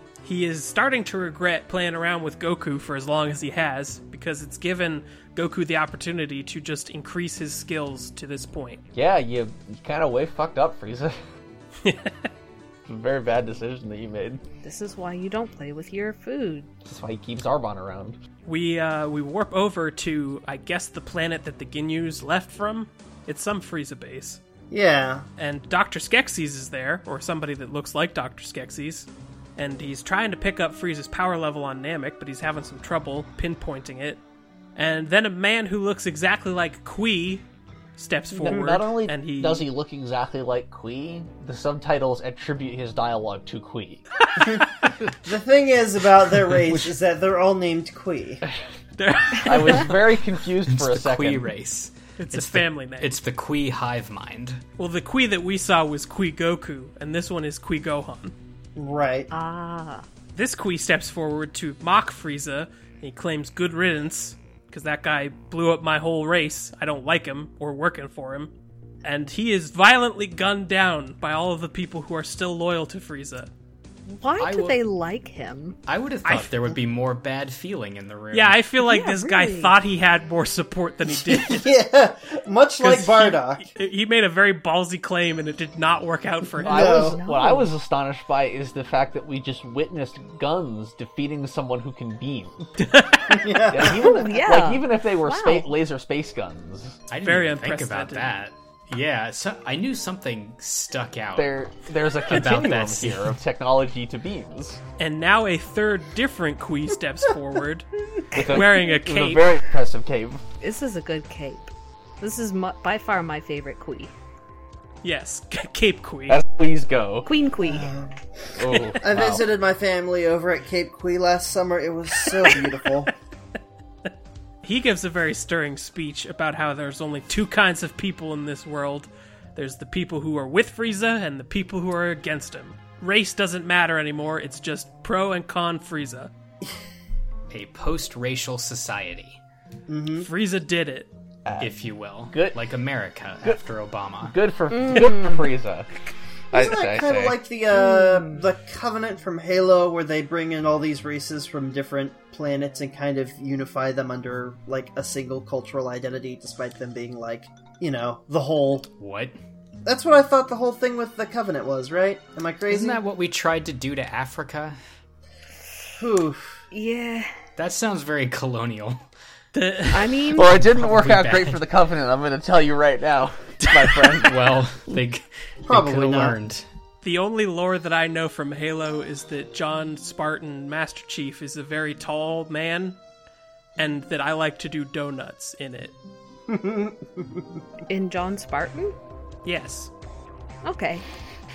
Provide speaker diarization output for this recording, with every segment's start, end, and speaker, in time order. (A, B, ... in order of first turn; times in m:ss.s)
0:00.2-0:08.8 A
0:08.9-0:11.2 B
0:11.8-0:12.1 A
0:12.9-0:14.4 B
0:14.6-0:16.7 C
0:16.8-0:18.2 B
0:18.4-0:24.4 A
0:24.7-0:25.2 D
0:25.4-0:34.2 A
0:34.8-0:37.4 A
0:38.0-0:39.7 A
0:38.4-0:44.0 B
0:38.4-0:38.8 D
0:44.3-0:44.6 A
0:45.2-0:48.4 D
0:49.0-0:50.0 A
0:49.3-0:51.5 B
0:50.7-0:54.6 E
0:52.2-0:53.2 A
0:54.8-0:58.3 A
0:58.8-0:59.3 D
0:59.3-1:00.0 C
1:00.3-1:08.5 A
1:09.0-1:13.5 A
1:14.1-1:15.8 C
1:14.4-1:14.8 E
1:15.9-1:18.6 E
1:18.3-1:21.7 A
1:18.8-1:19.8 C
1:21.2-1:23.7 D
1:22.8-1:27.0 A
1:26.6-1:32.7 B
1:26.6-1:27.2 D
1:26.8-1:27.7 C
1:32.8-1:33.5 A
1:33.3-1:34.2 D
1:33.7-1:37.0 B
1:33.8-1:35.7 C
1:37.1-1:41.6 E
1:37.2-1:38.3 A
1:41.3-1:44.8 B
1:42.2-1:43.4 E
1:45.0-1:49.4 A
1:48.3-1:50.4 B
1:50.6-1:54.1 C
1:55.0-1:56.4 A
1:56.3-1:57.3 B
1:57.2-1:57.9 C
1:57.6-2:03.1 D
1:58.6-1:59.4 B
2:04.6-2:16.3 A
2:17.5-2:19.4 E
2:19.9-2:20.3 D
2:20.2-2:21.1 A
2:21.4-2:21.7 B
2:21.6-2:24.3 E
2:22.3-2:22.6 B
2:24.2-2:25.9 B
2:24.7-2:25.3 C
2:26.5-2:27.4 B
2:26.5-2:38.9 D
2:27.8-2:28.3 C
2:39.0-2:39.4 E
2:39.8-2:43.0 D
2:42.7-2:44.8 E
2:46.0-2:46.6 D
2:46.7-2:47.3 C
2:47.6-2:49.0 E
2:49.5-2:50.1 A
2:49.9-2:50.5 C
2:50.3-2:54.5 B
2:50.4-2:51.6 E
2:54.2-2:56.6 E
2:55.7-2:56.4 D
2:57.0-3:03.0 A
3:03.8-3:05.9 A
3:06.5-3:07.6 D
3:07.9-3:08.9 C
3:09.4-3:09.9 A
3:10.6-3:11.0 C